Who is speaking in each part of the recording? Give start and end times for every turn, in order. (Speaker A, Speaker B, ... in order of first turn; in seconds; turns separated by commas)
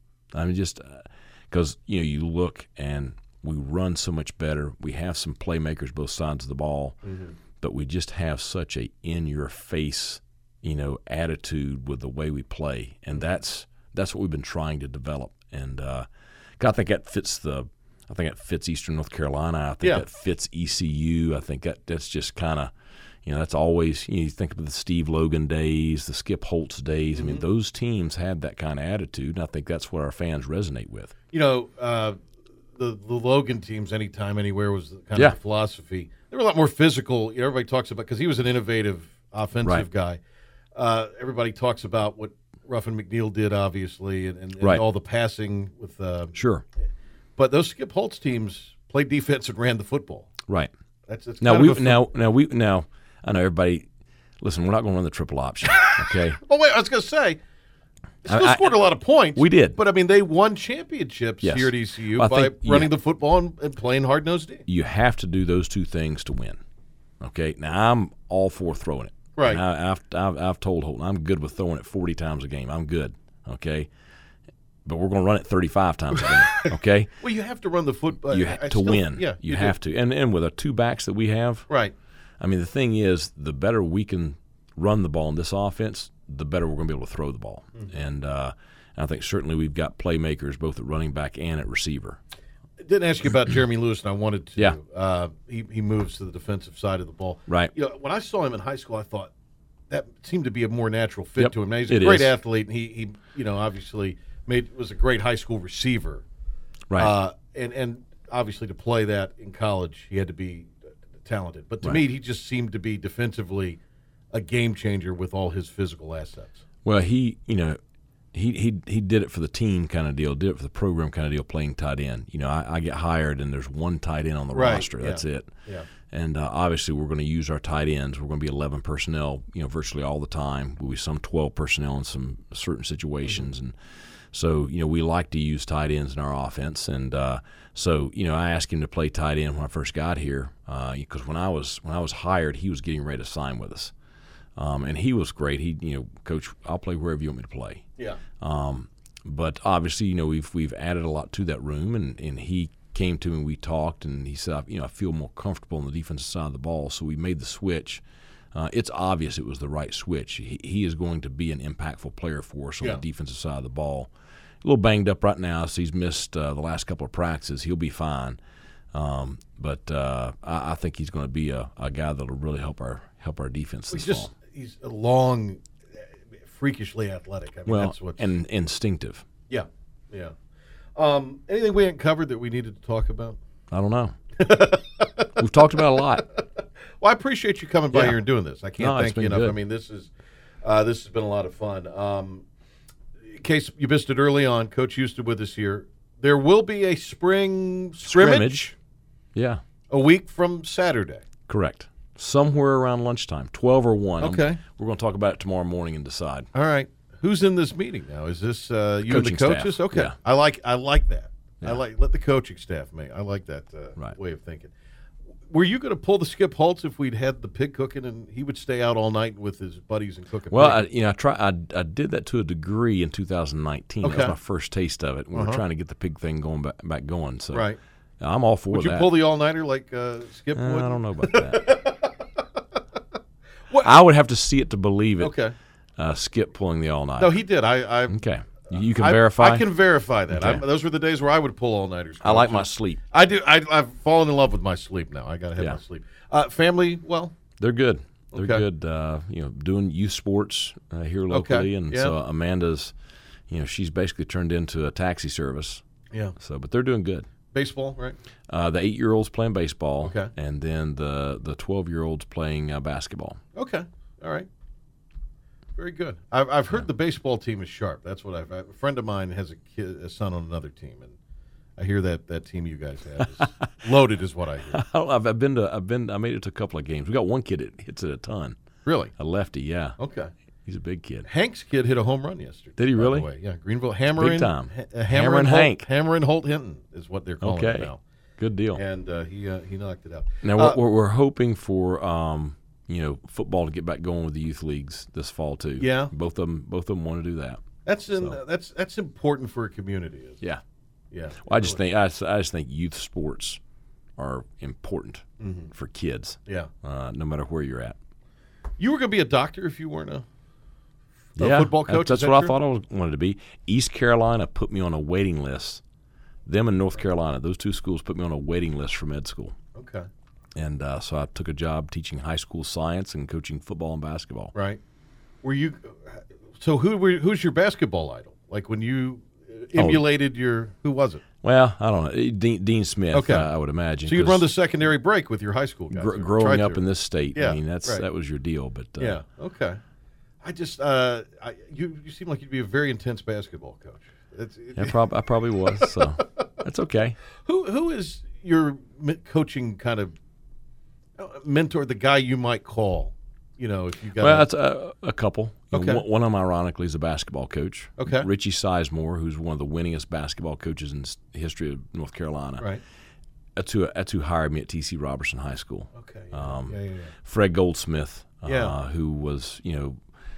Speaker A: 0.3-7.0, Speaker B: 7.0-7.3, Speaker A: 7.6-16.1, Speaker A: 16.6-22.7, Speaker A: 23.2-31.1, Speaker B: 27.1-27.4, Speaker B: 31.3-32.2, Speaker B: 32.8-40.2, Speaker B: 40.8-46.4, Speaker A: 46.3-46.6, Speaker B: 47.4-50.3, Speaker B: 51.1-52.1, Speaker A: 51.4-53.9, Speaker A: 54.4-56.4, Speaker B: 55.9-57.4, Speaker B: 58.2-64.7, Speaker A: 58.3-58.8, Speaker A: 59.3-59.8, Speaker A: 61.4-62.9, Speaker A: 64.7-66.6, Speaker A: 67.2-73.9, Speaker B: 69.4-69.6, Speaker A: 74.8-77.2, Speaker B: 77.2-79.7, Speaker A: 78.3-81.7, Speaker A: 82.4-92.2, Speaker B: 92.8-99.3, Speaker A: 97.5-97.7, Speaker B: 99.9-106.2, Speaker A: 101.4-102.4, Speaker B: 107.0-113.8, Speaker B: 114.3-116.6, Speaker A: 116.8-117.8, Speaker A: 118.3-125.5, Speaker B: 124.5-125.9, Speaker A: 126.1-133.7, Speaker B: 133.2-133.5, Speaker A: 134.3-143.9, Speaker A: 144.6-147.9, Speaker A: 148.4-158.0, Speaker A: 158.5-164.1, Speaker A: 164.6-168.4, Speaker A: 168.9-174.3, Speaker B: 173.9-175.6, Speaker B: 176.5-178.3, Speaker A: 177.7-179.2, Speaker B: 179.5-180.3, Speaker B: 180.9-183.4, Speaker A: 183.7-184.5, Speaker B: 184.4-185.4, Speaker A: 185.4-186.3, Speaker B: 187.0-190.1, Speaker A: 187.9-188.2, Speaker A: 188.8-189.6, Speaker B: 190.6-192.4, Speaker B: 193.3-198.6, Speaker A: 198.0-198.8, Speaker A: 199.3-199.6, Speaker B: 199.9-201.2, Speaker A: 201.5-206.5, Speaker B: 204.2-204.6, Speaker B: 206.5-214.7, Speaker A: 209.0-210.2, Speaker B: 215.5-220.9, Speaker A: 220.5-227.7, Speaker B: 224.0-224.3, Speaker B: 225.3-225.6, Speaker B: 227.5-227.8, Speaker A: 228.2-229.1, Speaker B: 228.7-232.1, Speaker A: 230.5-231.8, Speaker B: 233.7-234.0, Speaker A: 233.8-235.4, Speaker B: 235.2-235.5, Speaker A: 236.0-237.4, Speaker B: 237.2-247.3, Speaker A: 238.1-239.7, Speaker A: 240.3-240.7, Speaker A: 242.2-243.0, Speaker A: 247.6-252.9, Speaker B: 248.3-248.7, Speaker B: 251.3-252.2, Speaker A: 253.5-255.8, Speaker A: 256.4-257.3, Speaker B: 257.5-258.2, Speaker A: 258.5-263.4, Speaker B: 260.0-260.3, Speaker B: 263.6-264.5, Speaker B: 265.8-271.1, Speaker B: 271.8-274.8, Speaker A: 274.7-278.6, Speaker B: 278.9-279.1, Speaker A: 279.2-280.0, Speaker B: 280.0-280.3, Speaker A: 280.6-281.3, Speaker B: 281.2-288.0, Speaker A: 282.8-283.3, Speaker A: 284.1-285.9, Speaker A: 287.4-288.8, Speaker B: 288.8-290.8, Speaker A: 290.4-297.6, Speaker B: 295.8-296.1, Speaker B: 297.9-300.4, Speaker B: 301.1-301.8, Speaker A: 301.4-303.6, Speaker A: 304.2-308.0, Speaker B: 305.4-305.7, Speaker B: 308.8-310.2, Speaker A: 311.4-315.8, Speaker B: 311.4-312.6, Speaker A: 316.5-319.6, Speaker B: 319.8-320.1, Speaker A: 320.6-324.5, Speaker B: 324.5-324.8, Speaker B: 325.4-331.2, Speaker A: 329.8-330.1, Speaker A: 331.4-334.5, Speaker B: 333.1-333.5, Speaker B: 334.1-338.1, Speaker A: 335.9-339.2, Speaker B: 339.0-339.8, Speaker B: 340.4-345.0, Speaker A: 344.8-347.2, Speaker B: 347.4-350.1, Speaker B: 351.2-354.5, Speaker A: 354.2-362.7, Speaker B: 355.7-356.0, Speaker B: 358.0-358.3, Speaker A: 363.6-370.0, Speaker B: 365.9-367.1, Speaker B: 368.5-368.8